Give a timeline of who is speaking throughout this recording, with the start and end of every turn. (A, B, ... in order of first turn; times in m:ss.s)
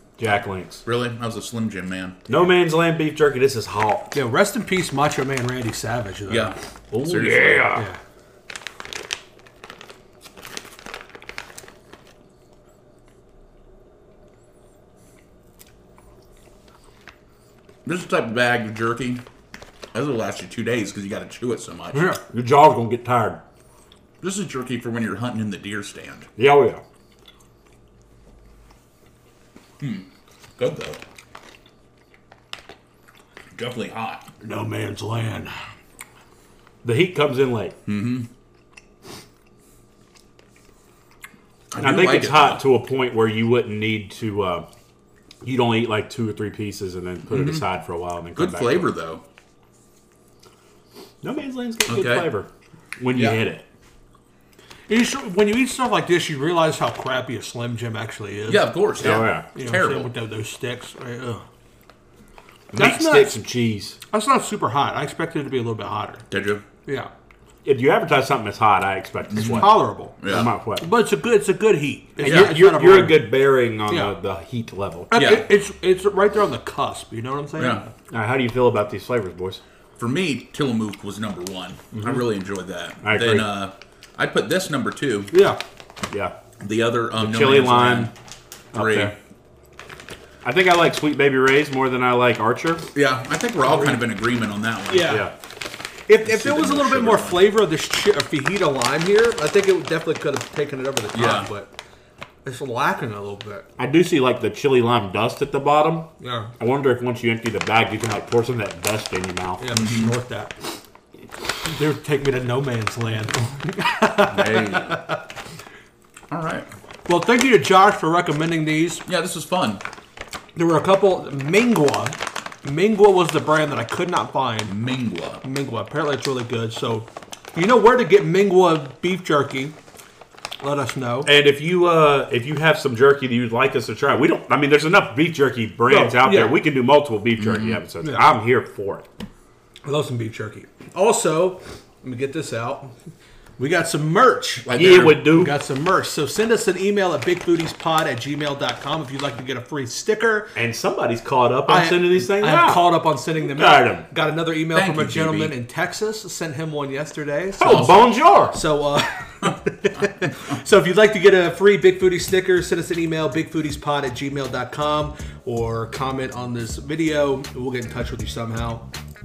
0:00.2-0:00.8 A
0:00.8-0:02.2 B
0:02.3-0:04.2 A
0:04.1-0:06.5 C
0:06.3-0:07.7 B
0:06.9-0:07.9 A
0:17.8-0:19.2 B
0:19.9-0:22.1 B
0:21.9-0:22.2 C
0:22.2-0:23.4 A
0:24.2-0:26.3 B
0:26.4-0:26.8 A
0:29.8-0:30.1 B
0:30.6-0:31.0 B
0:33.5-0:34.2 B
0:34.4-0:35.5 C
0:36.8-0:37.8 A
0:37.8-0:38.3 B
0:41.7-0:42.7 B
0:41.8-0:44.6 A
0:45.4-0:48.9 A
0:47.3-0:47.6 B
0:48.4-0:49.2 B
0:51.2-0:53.7 A
0:51.9-0:52.3 B
0:53.1-0:53.4 B
0:54.9-1:01.4 C
0:58.5-1:00.1 B
0:59.0-0:59.5 A
1:02.7-1:04.0 A
1:02.7-1:03.4 C
1:04.1-1:06.2 C
1:06.3-1:06.6 B
1:07.6-1:10.9 A
1:09.3-1:10.5 B
1:09.4-1:14.2 C
1:12.2-1:15.2 A
1:12.2-1:12.5 B
1:15.1-1:17.9 C
1:15.1-1:15.4 B
1:17.6-1:17.9 B
1:18.1-1:19.6 A
1:20.0-1:25.3 B
1:23.0-1:23.5 A
1:25.3-1:25.6 C
1:26.1-1:26.3 A
1:26.6-1:28.1 B
1:27.1-1:28.1 A
1:28.7-1:29.1 A
1:28.7-1:29.1 B
1:30.4-1:32.9 A
1:32.9-1:35.2 B
1:34.9-1:35.3 C
1:35.0-1:35.3 A
1:36.1-1:41.7 C
1:36.2-1:37.5 B
1:41.1-1:41.5 B
1:42.4-1:43.6 C
1:43.8-1:49.8 A
1:46.2-1:46.5 C
1:49.6-1:50.6 C
1:49.7-1:50.1 B
1:51.6-1:55.1 C
1:54.2-1:55.0 B
1:56.3-1:56.7 B
1:57.0-1:59.0 C
1:59.0-1:59.8 B
2:00.6-2:04.7 C
2:04.7-2:05.4 B
2:05.4-2:09.8 C
2:10.6-2:11.3 C
2:11.2-2:19.0 A
2:15.8-2:16.6 C
2:17.4-2:17.8 B
2:18.0-2:18.3 C
2:19.8-2:22.9 C
2:23.6-2:30.6 C
2:24.6-2:25.2 B
2:24.7-2:25.6 A
2:30.5-2:34.0 A
2:31.6-2:48.9 C
2:34.7-2:35.6 B
2:37.6-2:38.0 B
2:37.6-2:38.6 A